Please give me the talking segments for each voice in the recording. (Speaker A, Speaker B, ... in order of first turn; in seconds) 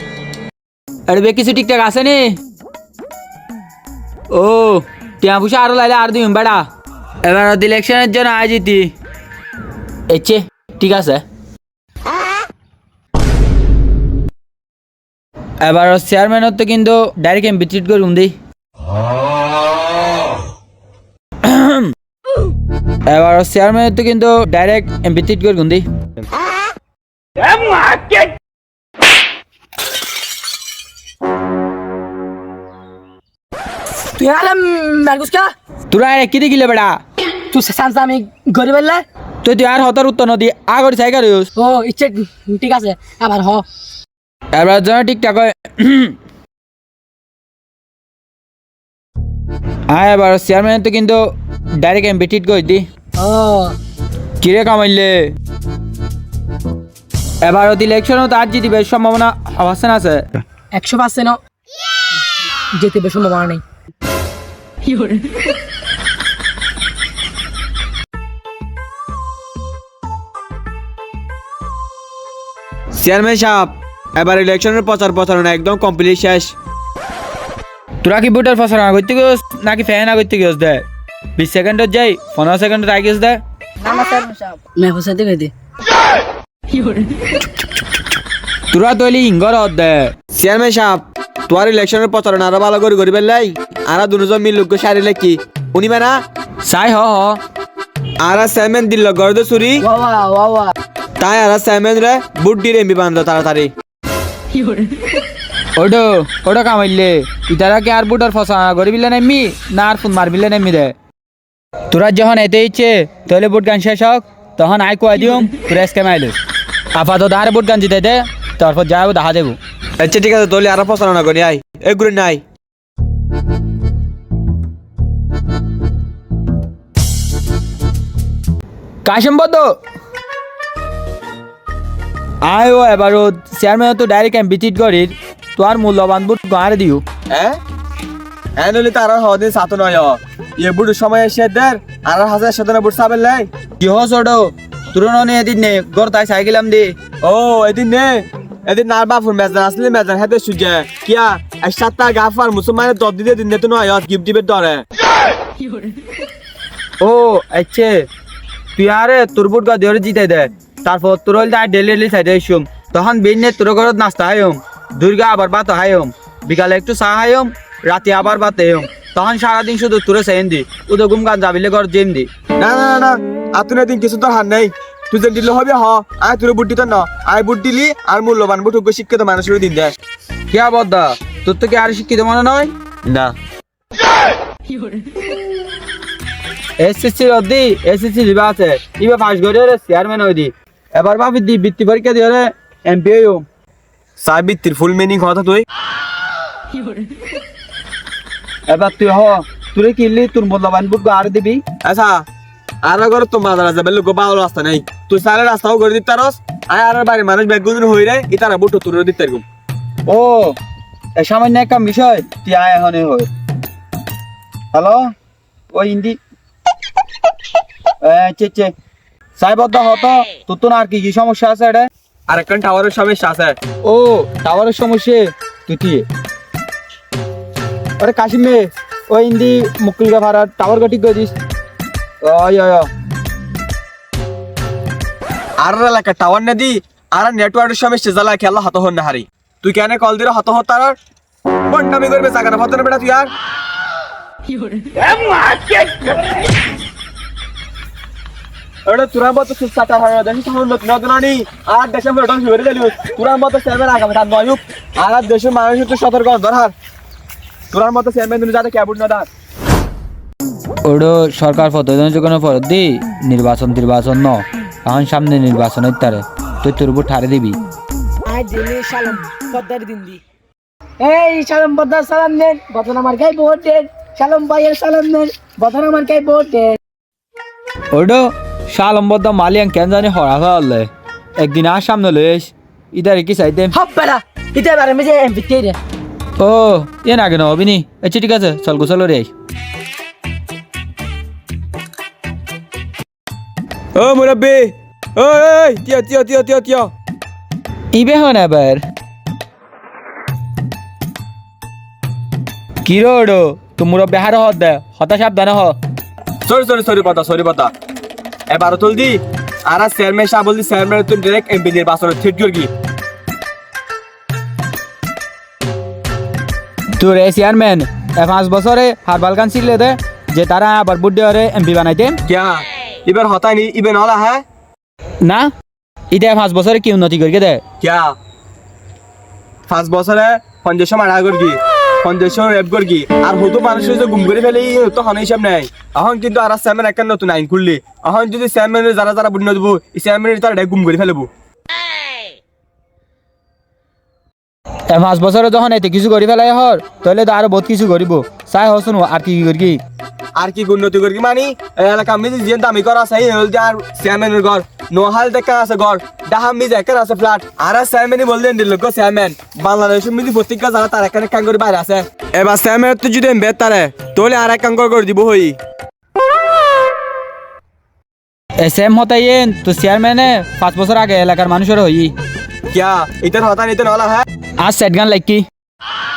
Speaker A: 1.1-2.4, 4.3-6.7, 7.2-8.9, 10.1-11.2, 15.6-18.3, 21.4-21.9, 23.1-25.9, 35.9-37.0, 39.4-41.5, 44.5-46.2, 49.9-51.2, 51.8-52.9, 54.4-55.3, 57.4-60.3, 78.0-80.8, 81.4-83.4, 88.7-90.1, 96.7-97.4, 105.8-111.0, 111.9-116.4, 117.0-119.6, 129.1-129.8, 132.4-137.0, 143.8-146.9, 157.0-158.1, 158.8-172.3, 180.5-182.7, 186.8-193.4, 198.7-201.6, 210.1-210.6, 211.2-213.3, 214.7-215.1, 215.7-216.2, 218.0-218.7, 219.4-221.9, 223.8-226.1, 228.0-231.3, 232.2-232.9, 260.9-267.6, 277.9-283.8, 286.4-289.3, 297.9-298.8, 302.8-305.8, 317.0-322.2, 325.2-325.5, 326.1-327.6, 344.9-349.8, 368.6-372.1, 374.6-375.4
Speaker B: 27.7-28.1, 34.1-35.5, 37.5-39.0, 41.6-43.6, 53.2-53.8, 60.7-61.4, 62.8-63.6, 83.8-85.5, 99.9-100.7, 268.3-270.2, 271.0-276.8, 283.7-285.8
Speaker C: 73.0-76.5, 90.3-96.2, 98.2-99.9, 101.2-103.7, 120.0-122.4, 137.3-137.6, 138.6-143.5, 147.2-154.8, 172.6-179.9, 183.1-183.3, 194.2-195.6, 201.8-202.3, 202.8-209.4, 222.3-223.6, 235.6-241.0, 241.7-243.3, 245.0-246.0, 248.9-256.7, 257.7-259.3, 294.0-296.9, 306.5-307.7, 308.5-312.7, 322.3-324.4, 327.8-328.1, 329.7-341.3, 350.4-365.6, 372.7-374.3